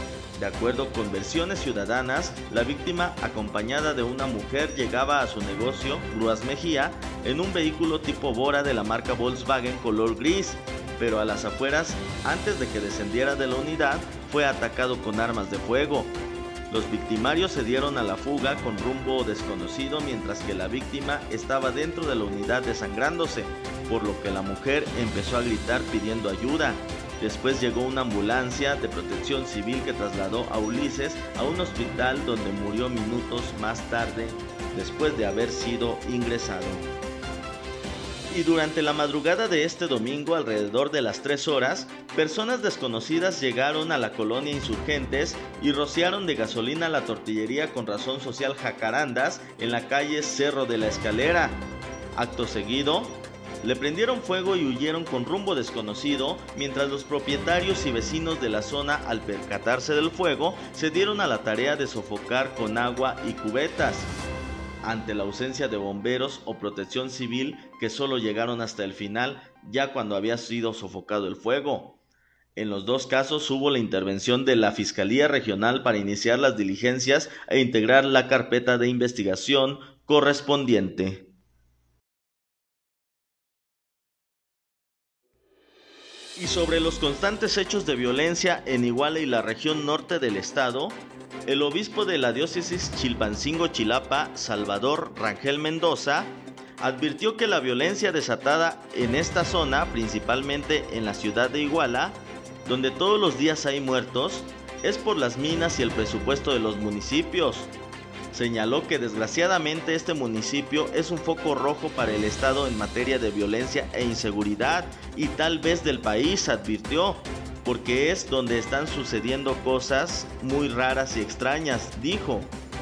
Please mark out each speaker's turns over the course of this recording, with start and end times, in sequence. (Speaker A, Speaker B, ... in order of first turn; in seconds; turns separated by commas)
Speaker A: 0.3-36.9, Speaker A: 38.3-64.1, Speaker A: 64.8-72.0, Speaker A: 72.5-81.3, Speaker A: 86.3-107.7, Speaker A: 108.3-122.5